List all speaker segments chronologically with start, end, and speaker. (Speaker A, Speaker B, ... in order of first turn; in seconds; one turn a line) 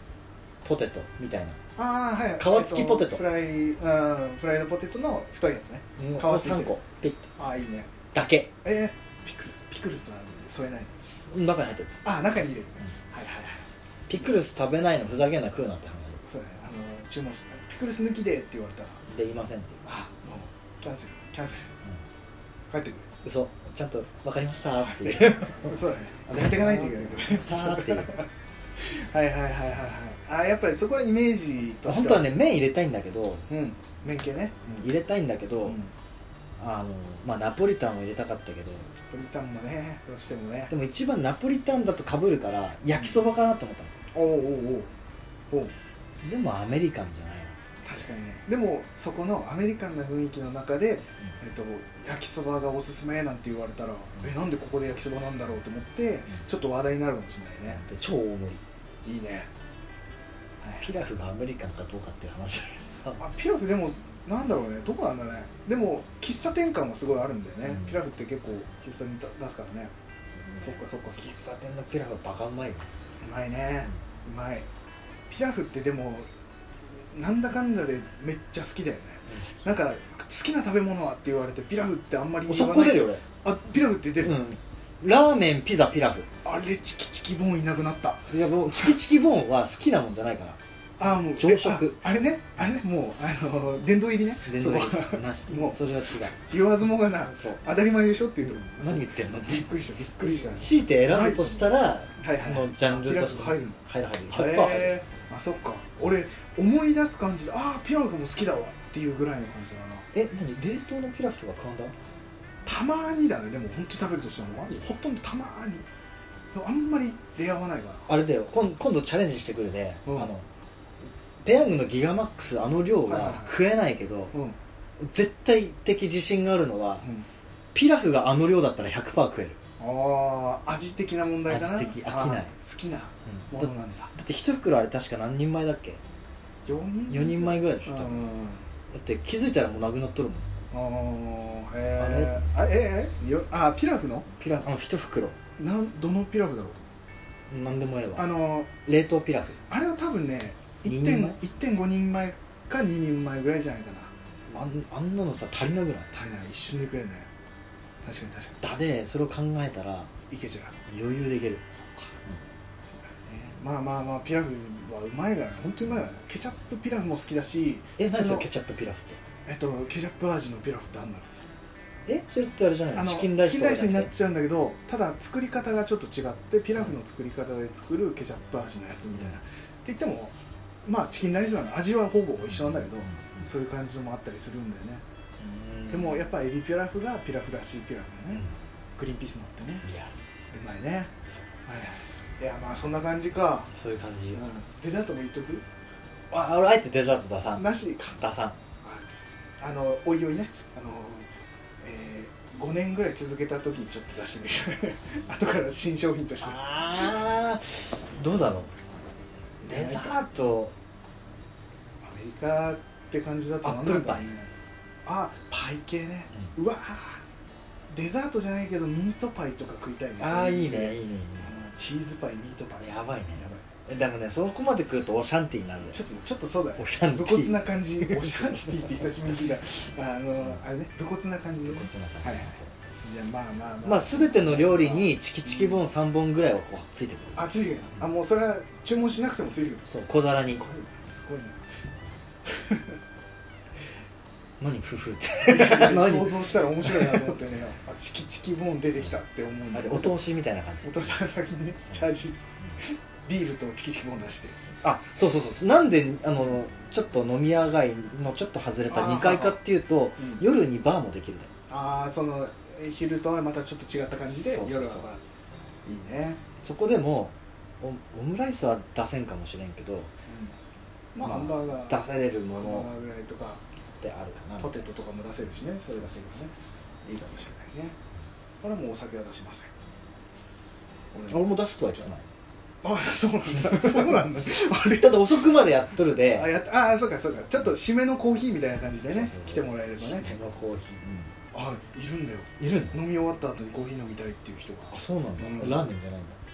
Speaker A: 0.6-1.6
Speaker B: 1.8-6.7
Speaker A: 2.4-3.2
Speaker A: 6.0-7.3
Speaker B: 7.4-7.9
Speaker A: 8.1-8.5
Speaker B: 8.6-10.9
Speaker A: 11.0-12.0
Speaker B: 12.0-13.7
Speaker A: 14.1-16.2
Speaker B: 16.2-19.0
Speaker A: 19.1-19.9
Speaker B: 19.8-21.7
Speaker B: 22.7-23.1
Speaker A: 23.2-28.2
Speaker B: 24.8-32.3
Speaker A: 31.9-33.5
Speaker B: 33.5-34.6
Speaker A: 34.6-35.8
Speaker B: 35.6-35.9
Speaker A: 36.6-38.9
Speaker B: 39.1-40.7
Speaker A: 40.7-43.9
Speaker B: 44.1-44.9
Speaker A: 46.2-47.6
Speaker B: 47.8-57.8
Speaker A: 57.7-58.6
Speaker B: 59.0-59.5
Speaker A: 60.8-63.2
Speaker B: 63.2-69.9
Speaker A: 67.7-68.0
Speaker A: 70.5-72.9
Speaker B: 70.6-71.3
Speaker B: 73.2-74.7
Speaker B: 75.3-76.3
Speaker B: 77.0-84.4
Speaker A: 79.3-79.7
Speaker A: 82.5-83.2
Speaker A: 84.2-86.3
Speaker B: 86.4-88.9
Speaker A: 88.3-90.6
Speaker B: 91.0-110.1
Speaker A: 91.3-92.0
Speaker A: 94.4-96.5
Speaker A: 97.2-97.6
Speaker A: 98.4-99.7
Speaker A: 100.3-104.9
Speaker A: 110.1-111.9
Speaker B: 112.6-115.9
Speaker B: 116.5-118.1
Speaker A: 118.1-120.5
Speaker A: 121.4-124.3
Speaker B: 123.0-123.5
Speaker A: 125.0-127.1
Speaker A: 127.7-129.6
Speaker B: 129.8-134.1
Speaker A: 131.5-132.5
Speaker A: 133.3-136.0
Speaker B: 136.6-138.6
Speaker A: 137.1-138.3
Speaker A: 138.9-140.5
Speaker B: 140.7-144.3
Speaker A: 142.0-142.4
Speaker A: 144.3-145.4
Speaker B: 145.6-146.8
Speaker A: 147.5-149.6
Speaker B: 148.2-148.7
Speaker B: 149.7-154.1
Speaker A: 150.8-151.4
Speaker A: 154.5-156.1
Speaker B: 156.1-157.3
Speaker B: 158.0-158.6
Speaker A: 158.6-160.1
Speaker B: 160.3-160.8
Speaker A: 160.9-161.7
Speaker B: 161.7-162.1
Speaker B: 163.1-168.5
Speaker A: 168.0-169.2
Speaker B: 169.4-171.4
Speaker A: 172.1-174.1
Speaker B: 172.9-185.0
Speaker A: 182.5-183.5
Speaker A: 185.4-186.3
Speaker B: 185.9-188.4
Speaker B: 188.9-189.8
Speaker A: 189.8-190.2
Speaker B: 190.5-191.1
Speaker B: 191.7-193.7
Speaker A: 193.7-194.4
Speaker B: 194.3-195.6
Speaker A: 196.3-198.6
Speaker B: 197.6-198.2
Speaker B: 198.8-201.3
Speaker B: 201.8-207.1
Speaker A: 206.4-208.7
Speaker B: 209.6-210.2
Speaker A: 209.6-210.7
Speaker B: 212.0-214.5
Speaker A: 213.6-214.3
Speaker B: 215.0-217.2
Speaker B: 217.9-223.6
Speaker A: 220.2-221.5
Speaker A: 222.8-226.0
Speaker B: 225.9-235.8
Speaker A: 226.8-228.9
Speaker A: 231.7-232.7
Speaker A: 233.8-237.5
Speaker B: 237.3-241.7
Speaker A: 239.9-240.6
Speaker B: 242.4-243.0
Speaker A: 244.6-247.2
Speaker B: 245.4-250.1
Speaker A: 249.7-251.2
Speaker B: 250.8-254.6
Speaker A: 254.8-261.5
Speaker B: 258.9-259.6
Speaker B: 260.2-260.4
Speaker B: 261.7-265.2
Speaker A: 264.3-265.1
Speaker B: 265.8-266.4
Speaker A: 266.6-270.1
Speaker B: 270.3-270.5
Speaker B: 271.1-273.6
Speaker A: 271.2-272.9
Speaker A: 274.0-274.8
Speaker B: 274.6-276.5
Speaker B: 277.0-278.0
Speaker B: 278.6-279.7
Speaker B: 281.1-282.0
Speaker A: 281.3-282.3
Speaker B: 282.8-285.3
Speaker A: 283.6-286.5
Speaker B: 286.3-290.4
Speaker A: 289.1-291.3
Speaker B: 291.5-295.9
Speaker A: 292.6-293.0
Speaker A: 294.9-296.4